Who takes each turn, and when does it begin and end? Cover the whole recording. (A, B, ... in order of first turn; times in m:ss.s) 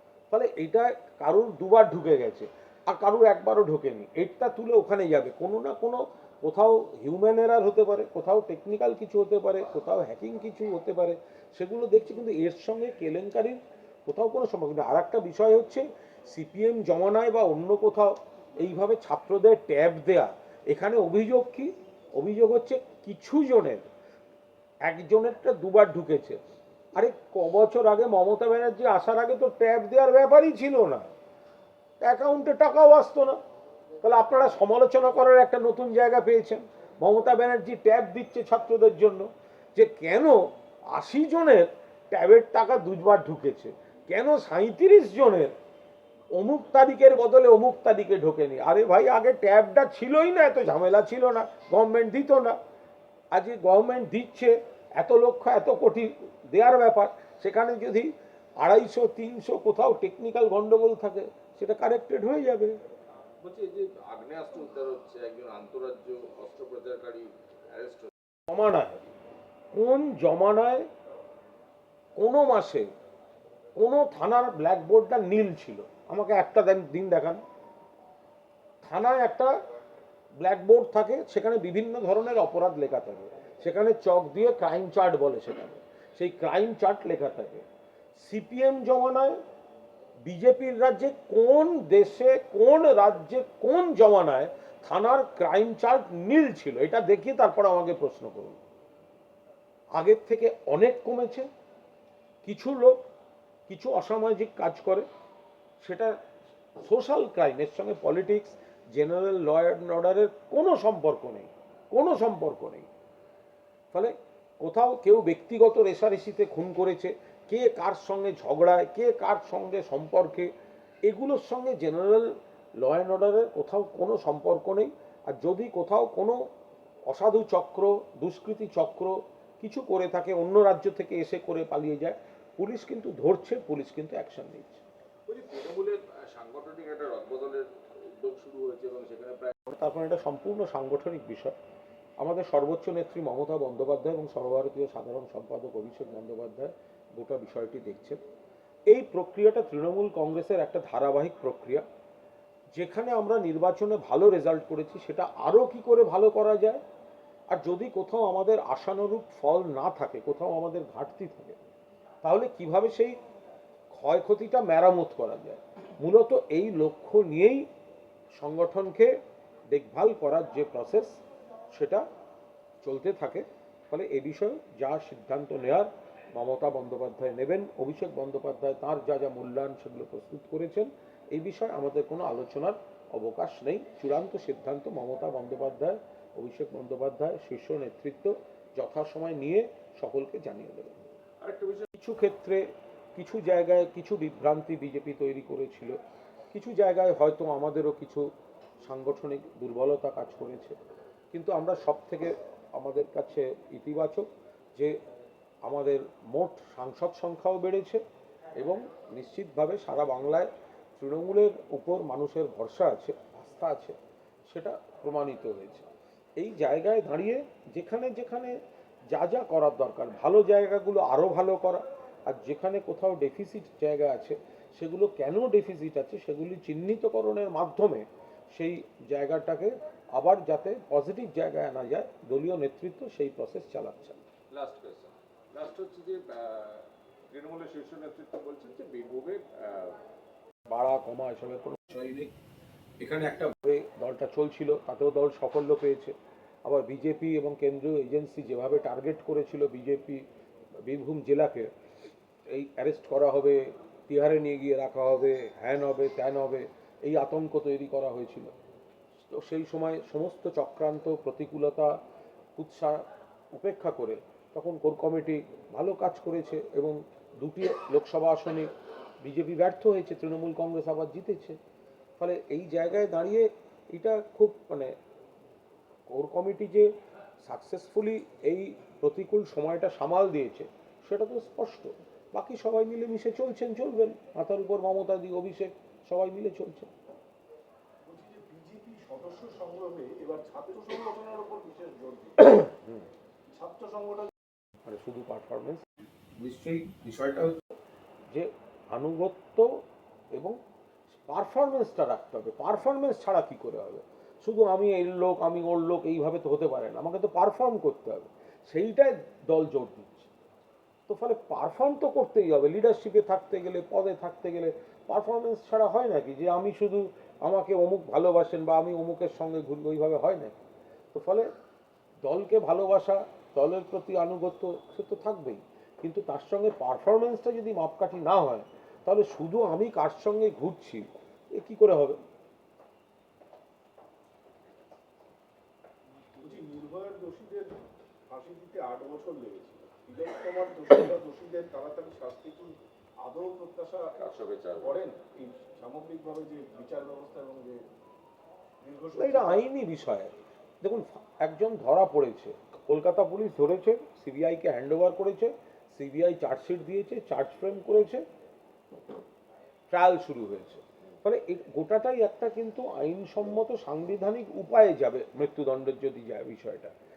0:00.3-0:23.9 A
0:24.8-0:26.4 A
0:27.0-0:31.1 A
0:32.0-0:33.4 A
0:34.0-0:45.5 A
0:46.3-0:52.6 A
0:53.3-1:02.8 A
1:03.4-1:08.1 B
1:08.5-1:09.1 A
1:09.7-1:10.9 A
1:12.2-1:12.9 A
1:13.8-1:17.4 A
1:18.8-1:19.5 A
1:20.4-1:27.6 A
1:28.2-1:29.4 A
1:30.2-1:38.6 A
1:40.0-1:41.5 A
1:42.4-1:43.0 A
1:43.7-1:45.0 A
1:45.8-1:46.2 A
1:46.8-1:52.9 A
1:53.9-2:00.5 A
2:01.0-2:06.4 A
2:07.1-2:14.8 A
2:15.3-2:17.7 B
2:18.2-2:19.6 B
2:19.7-2:21.6 A
2:22.2-2:28.2 A
2:28.9-2:31.8 A
2:32.7-2:36.8 A
2:37.5-2:41.6 A
2:42.2-2:43.2 A
2:43.9-2:47.6 A
2:48.4-2:49.2 A
2:49.7-2:51.2 A
2:51.7-2:52.0 A
2:52.8-3:11.0 A
3:11.4-3:11.9 B
3:11.9-3:16.0 A
3:16.5-3:18.3 A
3:18.8-3:20.8 A
3:21.3-3:25.0 A
3:25.6-3:28.0 A
3:28.6-3:38.5 A
3:39.1-3:54.2 A
3:54.5-4:00.0 B
4:00.7-4:02.3 A
4:03.0-4:10.2 A
4:10.8-4:11.7 A
4:12.5-4:18.5 A
4:19.3-4:22.0 A
4:22.6-4:31.6 A
4:32.2-4:34.9 A
4:36.1-4:36.9 A
4:37.4-4:46.9 A
4:48.0-4:52.4 C
4:52.4-4:53.1 A
4:53.5-4:54.3 C
4:54.8-4:57.6 A
4:58.3-4:59.8 A
5:01.1-5:10.3 A
5:11.1-5:20.5 A
5:21.1-5:21.5 A
5:22.2-5:32.2 A
5:36.4-5:47.8 C
5:44.2-5:44.9 B
5:48.8-5:49.6 C
5:49.2-5:58.2 A
5:59.9-6:06.9 A